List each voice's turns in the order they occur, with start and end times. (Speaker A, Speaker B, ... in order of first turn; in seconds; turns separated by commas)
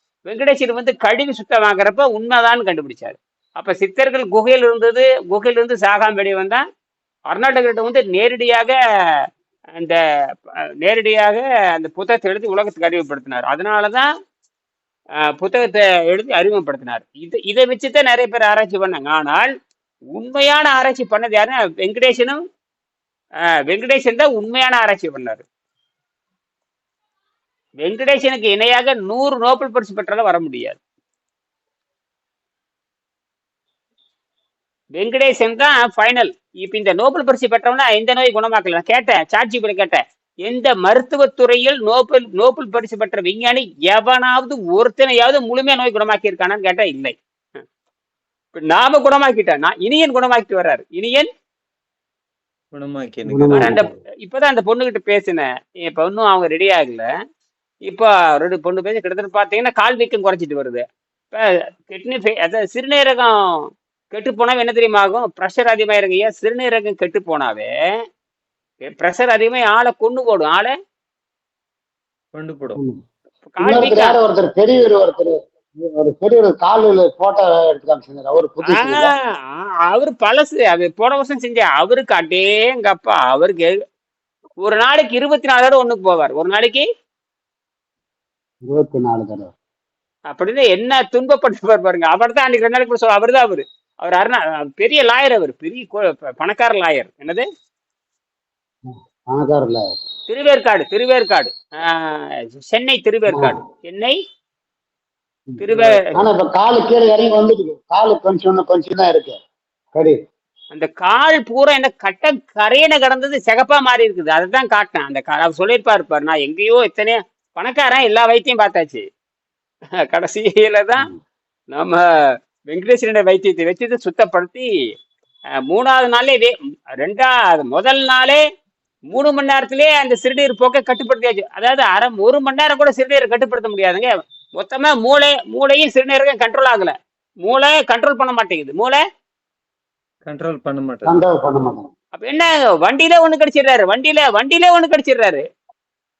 Speaker A: 0.3-6.6, Speaker A: 7.3-8.8, Speaker A: 10.8-14.1, Speaker A: 15.4-19.5, Speaker A: 20.1-22.4, Speaker A: 23.7-25.4, Speaker A: 27.8-30.8, Speaker A: 35.0-47.1, Speaker A: 48.5-51.3, Speaker B: 52.7-53.9, Speaker C: 53.3-53.9, Speaker A: 53.6-57.0, Speaker A: 57.9-63.4, Speaker A: 64.1-67.7, Speaker A: 68.9-70.7, Speaker B: 72.3-72.8, Speaker C: 72.8-73.0, Speaker A: 73.5-74.2, Speaker C: 73.6-79.1, Speaker A: 78.7-83.7, Speaker A: 84.6-86.9, Speaker C: 88.7-89.5, Speaker A: 90.3-97.5, Speaker C: 98.9-99.9, Speaker A: 100.3-104.2, Speaker C: 103.3-103.6, Speaker C: 105.5-109.4, Speaker A: 105.6-106.1, Speaker A: 110.7-119.0, Speaker A: 120.0-121.1, Speaker A: 121.7-122.0, Speaker A: 122.7-124.7, Speaker A: 125.7-128.4, Speaker A: 129.1-139.0, Speaker B: 140.2-141.2, Speaker C: 141.1-141.9, Speaker A: 142.2-145.4